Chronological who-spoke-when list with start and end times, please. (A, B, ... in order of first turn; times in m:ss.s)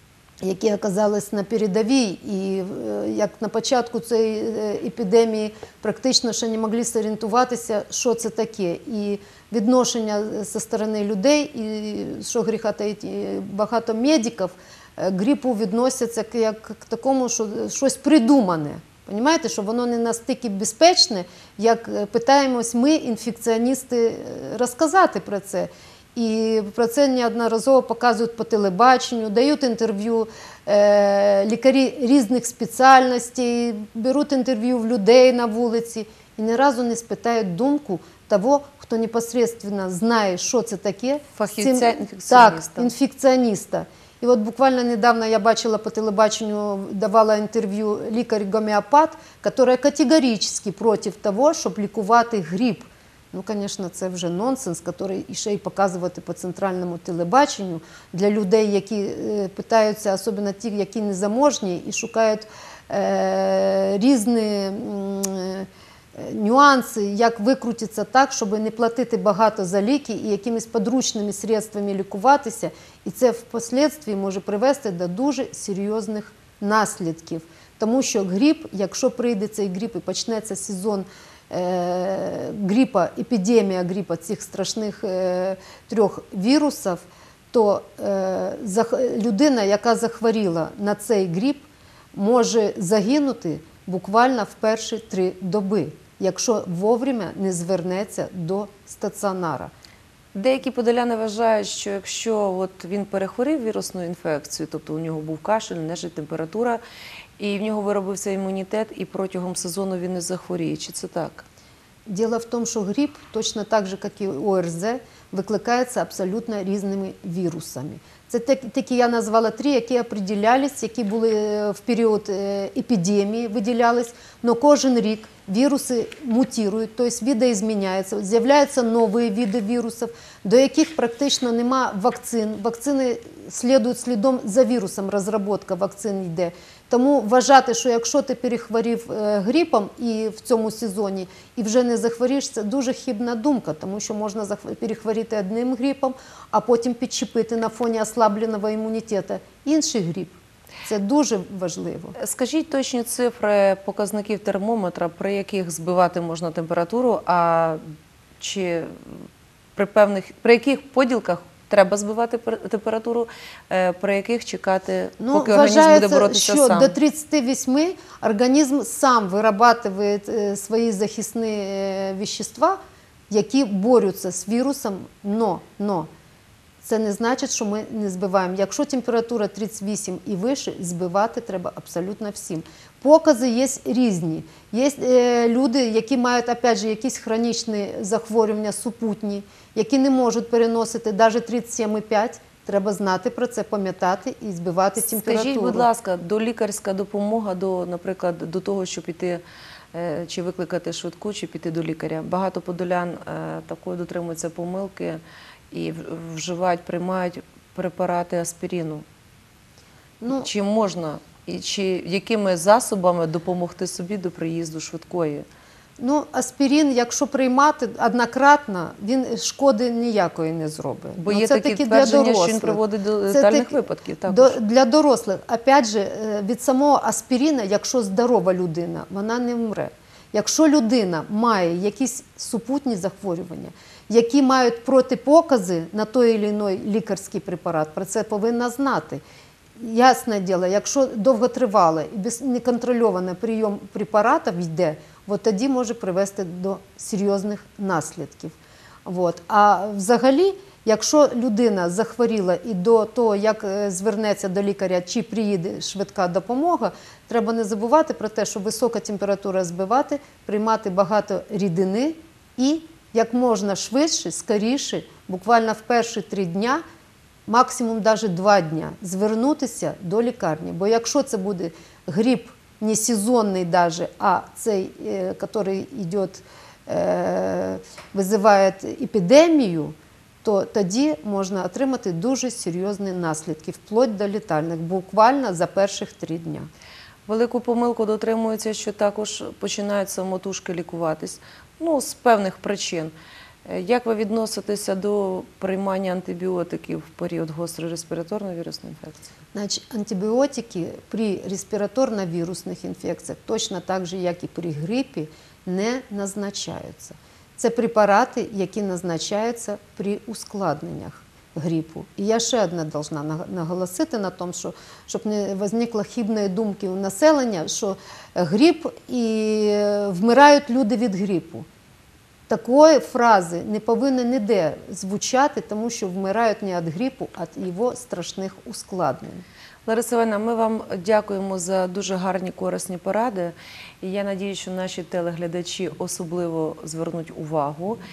0:00.4-1:39.7 A
0:41.4-0:42.9 B
1:40.4-1:46.8 B
1:47.4-1:51.5 B
1:52.1-2:32.2 A
2:32.2-2:37.8 B
2:38.4-2:47.0 B
2:45.2-2:52.8 A
2:53.3-2:56.1 A
2:56.8-3:15.9 A
3:15.0-3:19.4 B
3:19.9-3:29.0 B
3:30.2-3:30.5 A
3:30.3-3:35.5 B
3:36.0-3:59.2 A
3:41.2-3:44.6 B
3:59.8-4:26.8 A
4:27.5-4:46.7 A
4:47.3-4:53.1 B
4:53.6-4:59.2 B
4:59.5-5:21.7 A
5:22.5-5:29.4 A
5:29.9-5:38.0 B